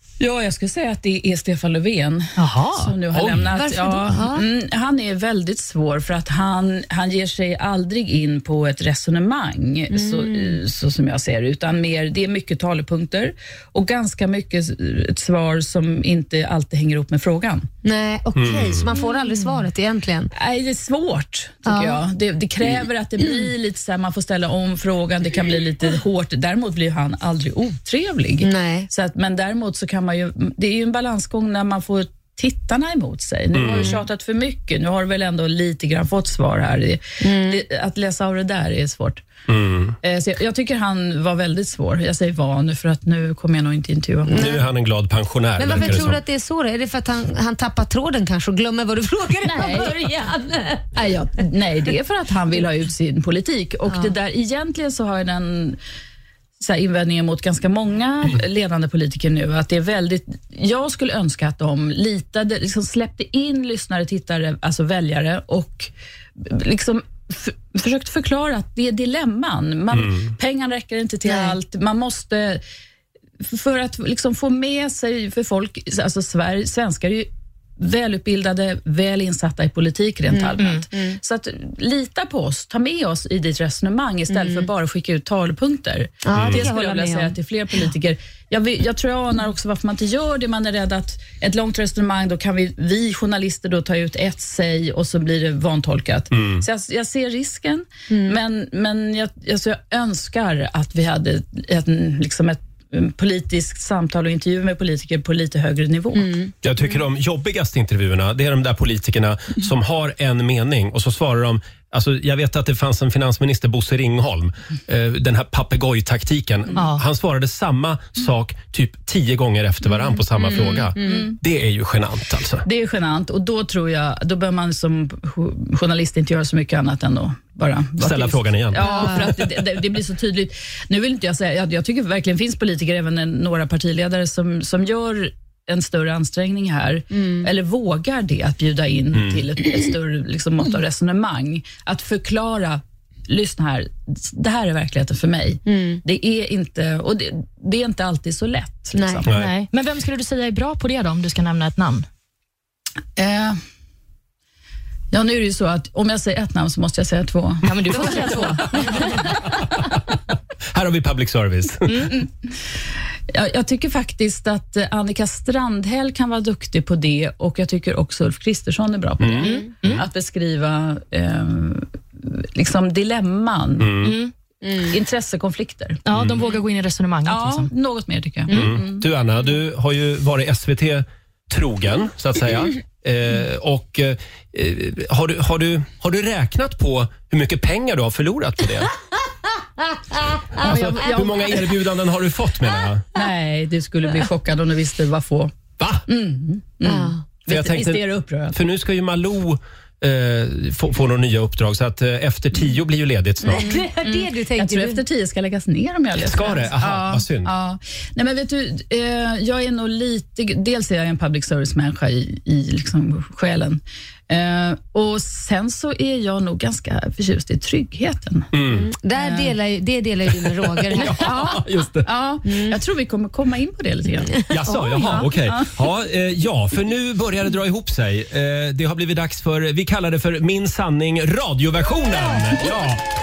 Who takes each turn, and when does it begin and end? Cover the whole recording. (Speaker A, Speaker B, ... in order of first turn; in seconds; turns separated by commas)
Speaker A: 0.2-17.7, Speaker B: 2.4-2.9, Speaker C: 3.1-3.5, Speaker D: 3.5-4.5, Speaker D: 9.9-10.6, Speaker D: 17.8-20.3, Speaker C: 18.4-18.9, Speaker A: 18.9-19.6, Speaker A: 20.4-39.2, Speaker D: 21.7-22.0, Speaker D: 28.4-28.9, Speaker C: 33.5-33.9, Speaker D: 37.2-37.6, Speaker C: 39.5-40.0, Speaker A: 40.0-44.5, Speaker D: 44.3-44.6, Speaker C: 44.3-46.2, Speaker D: 45.6-50.9, Speaker A: 49.4-50.0, Speaker A: 50.9-55.8, Speaker D: 53.9-54.1, Speaker A: 56.6-72.6, Speaker C: 69.9-70.3, Speaker D: 71.2-71.5, Speaker A: 73.4-106.3, Speaker D: 80.3-81.2, Speaker D: 84.3-84.7, Speaker D: 86.2-87.3, Speaker C: 86.3-86.6, Speaker C: 96.3-96.7, Speaker D: 98.1-98.4, Speaker D: 106.1-106.5, Speaker C: 106.6-122.7, Speaker B: 116.8-117.0, Speaker D: 120.2-121.3, Speaker A: 121.0-121.4, Speaker A: 122.6-149.3, Speaker C: 128.0-129.6, Speaker D: 128.8-129.3, Speaker D: 137.1-137.5, Speaker C: 139.1-139.4, Speaker D: 145.7-146.0, Speaker D: 148.9-149.2, Speaker B: 149.3-152.1, Speaker A: 153.2-153.6, Speaker A: 155.1-159.3, Speaker B: 157.6-159.1, Speaker C: 160.7-162.2, Speaker A: 163.3-174.1, Speaker C: 169.2-170.0, Speaker B: 169.4-170.0, Speaker C: 173.8-174.2, Speaker B: 174.0-174.3, Speaker D: 174.6-174.9, Speaker A: 174.8-176.0, Speaker B: 176.0-177.7, Speaker C: 176.1-176.4, Speaker A: 177.2-179.0, Speaker D: 178.5-178.7, Speaker C: 178.5-188.9, Speaker C: 190.5-193.1, Speaker A: 190.6-191.6, Speaker A: 193.1-195.5, Speaker C: 195.8-196.0, Speaker A: 196.1-198.6, Speaker D: 196.8-197.2, Speaker C: 197.5-203.8, Speaker D: 203.5-205.0, Speaker A: 203.6-218.5, Speaker C: 206.2-207.5, Speaker C: 218.5-218.9, Speaker D: 218.7-221.3, Speaker A: 219.2-219.5, Speaker C: 220.9-222.1, Speaker A: 221.1-225.7, Speaker D: 222.4-222.8, Speaker D: 224.4-224.8, Speaker C: 224.5-233.0, Speaker D: 232.2-232.7